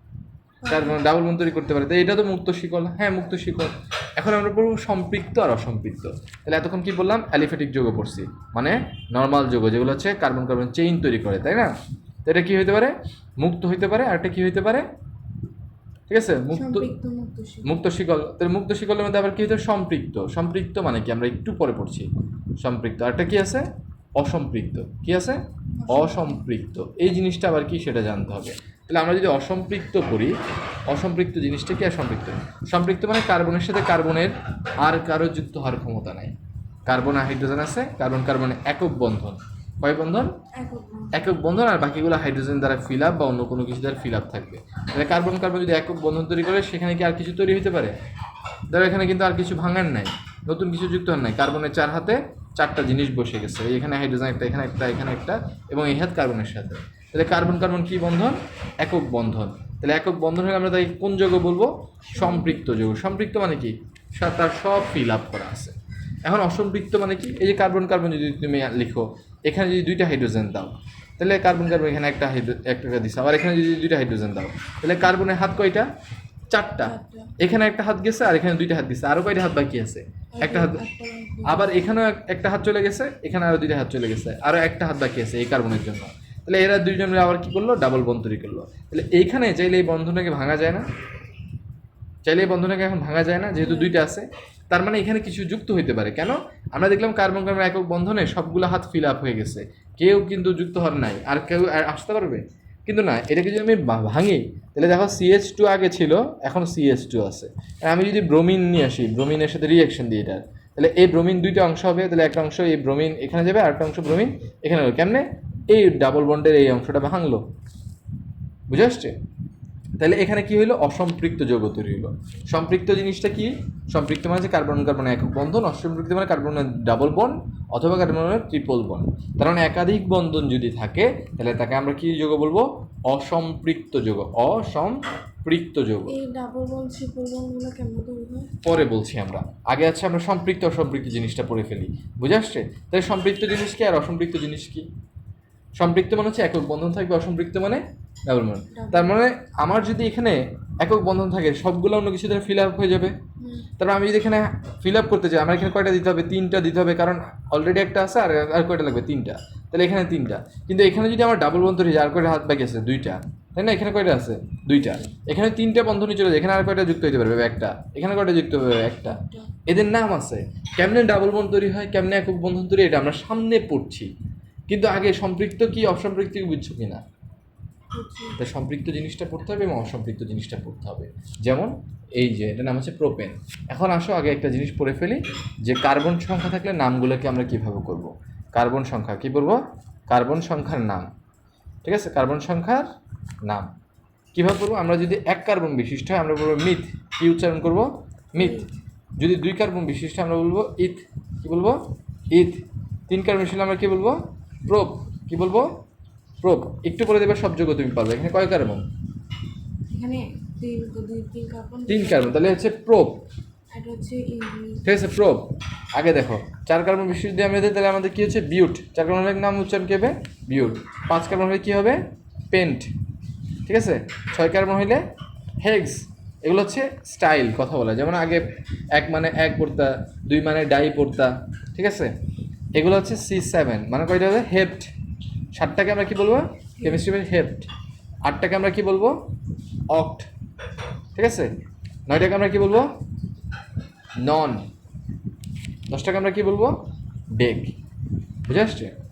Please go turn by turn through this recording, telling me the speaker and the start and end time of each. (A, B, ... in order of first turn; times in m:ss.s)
0:00.6-0:01.0 A
0:00.7-0:11.7 B
0:12.3-0:14.8 B
0:16.1-0:16.9 B
0:16.5-0:17.8 A
0:17.6-0:30.4 B
0:25.8-0:26.4 A
0:30.9-0:36.4 B
0:36.9-0:40.4 B
0:40.5-0:41.4 A
0:41.1-0:47.9 B
0:48.7-1:15.9 B
1:02.1-1:02.7 A
1:16.5-1:20.8 B
1:16.8-1:17.4 A
1:20.4-1:21.9 A
1:21.4-1:30.8 B
1:32.2-1:57.4 B
1:33.6-1:34.0 A
1:58.7-1:59.2 B
2:00.0-2:16.2 B
2:16.1-2:18.5 A
2:18.6-2:24.9 B
2:25.8-2:33.2 B
2:28.7-2:29.2 A
2:33.4-2:33.7 A
2:33.8-2:54.1 B
2:49.1-2:49.6 A
2:54.7-2:57.0 B
2:57.9-2:58.4 A
2:58.4-3:11.1 B
3:11.8-3:12.9 B
3:13.4-3:13.7 B
3:14.4-3:18.6 B
3:18.4-3:18.8 A
3:19.2-3:25.8 B
3:26.4-3:28.8 B
3:29.9-3:32.6 A
3:31.9-3:33.2 B
3:33.7-3:34.9 A
3:34.8-3:42.9 B
3:40.5-3:40.8 A
3:43.7-3:45.0 B
3:45.6-3:52.1 B
3:52.8-3:54.9 B
3:55.5-3:57.7 B
3:56.8-3:57.1 A
3:58.2-3:59.2 B
3:59.9-4:00.3 B
4:01.2-4:01.5 B
4:02.1-4:02.9 B
4:04.2-4:04.6 B
4:05.9-4:06.8 B
4:07.4-4:07.7 B
4:08.5-4:08.9 B